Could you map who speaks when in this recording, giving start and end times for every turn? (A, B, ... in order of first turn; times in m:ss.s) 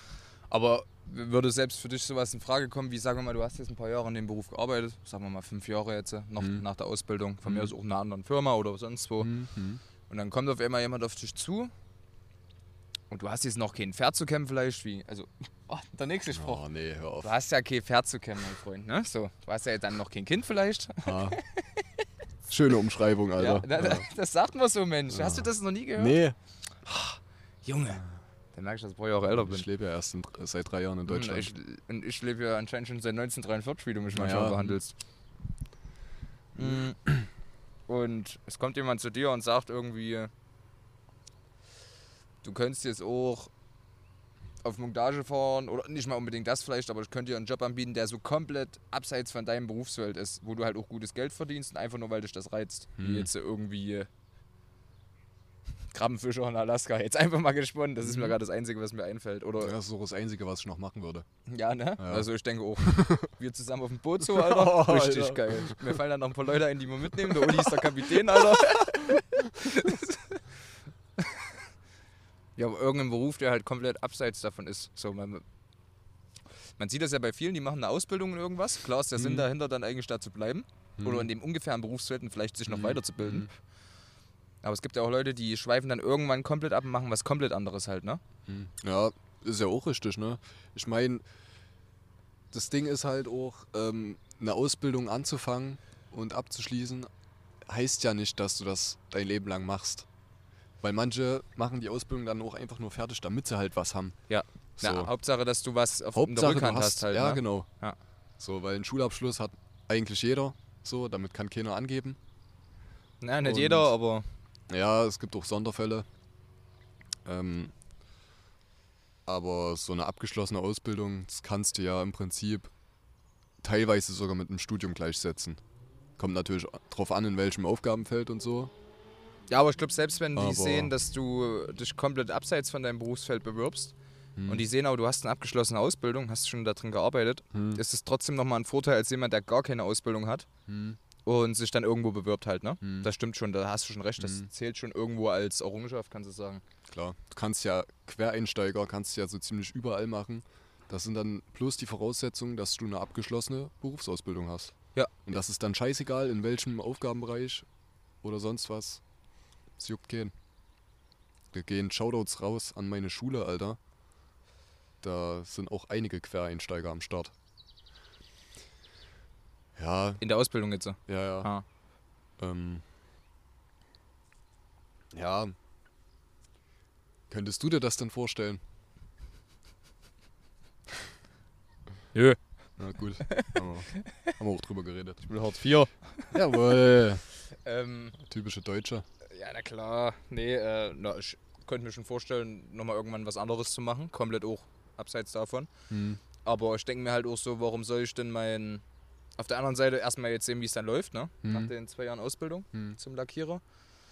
0:00.5-0:09.3 A
0:06.4-0:06.6 B
0:07.4-0:07.7 B
0:09.2-0:09.8 B
0:10.1-0:11.7 A
0:13.1-0:16.6 A
0:16.3-0:17.4 B
0:17.2-0:22.0 A
0:21.0-0:21.4 B
0:22.5-0:24.1 B
0:23.4-0:26.2 A
0:25.1-0:26.4 B
0:26.8-0:28.0 A
0:28.5-0:29.7 A
0:29.3-0:31.5 B
0:31.1-0:34.9 A
0:34.1-0:34.8 B
0:36.6-0:37.0 A
0:36.6-0:37.2 B
0:37.9-0:40.3 A
0:42.4-0:43.5 A
0:44.6-0:54.1 A
0:53.0-0:53.3 B
0:55.9-0:59.8 A
0:58.0-0:58.4 B
0:59.6-1:01.3 B
1:01.5-1:10.4 A
1:02.0-1:02.3 B
1:02.8-1:03.3 B
1:04.2-1:06.0 B
1:07.2-1:09.2 B
1:11.2-1:11.5 A
1:12.6-1:15.4 A
1:16.8-1:23.5 A
1:19.2-1:19.5 B
1:21.0-1:21.3 B
1:22.7-1:23.5 B
1:24.6-1:28.2 A
1:28.5-1:31.2 B
1:32.5-1:37.1 B
1:37.7-1:40.1 B
1:40.8-1:44.2 B
1:44.3-1:48.0 A
1:44.8-1:45.1 B
1:46.1-1:47.7 B
1:48.4-1:52.2 B
1:53.2-1:54.3 A
1:53.4-1:53.9 B
1:54.7-1:56.1 B
1:57.2-1:57.7 B
1:59.3-2:02.7 B
2:03.6-2:05.6 B
2:06.2-2:08.7 B
2:09.5-2:13.9 A
2:10.4-2:10.9 B
2:14.4-2:14.7 B
2:14.5-2:20.5 A
2:17.5-2:17.8 B
2:20.7-2:21.0 B
2:21.2-2:26.6 A
2:22.8-2:23.1 B
2:24.2-2:24.5 B
2:26.9-2:34.7 B
2:35.3-2:37.7 B
2:38.2-2:39.0 B
2:39.8-2:40.3 B
2:41.5-2:43.8 B
2:45.0-2:47.3 B
2:49.8-2:50.2 B
2:50.2-2:51.6 A
2:51.1-2:51.5 B
2:52.4-2:52.8 B
2:55.1-2:55.6 B
2:57.3-2:58.6 B
3:02.8-3:05.2 B
3:03.2-3:04.3 A
3:05.2-3:06.4 A
3:06.3-3:07.2 B
3:07.6-3:08.2 A
3:08.2-3:09.0 B
3:09.3-3:15.7 A
3:15.9-3:16.2 B
3:16.4-3:18.8 A
3:19.4-3:23.6 A
3:21.4-3:21.7 B
3:22.7-3:23.0 B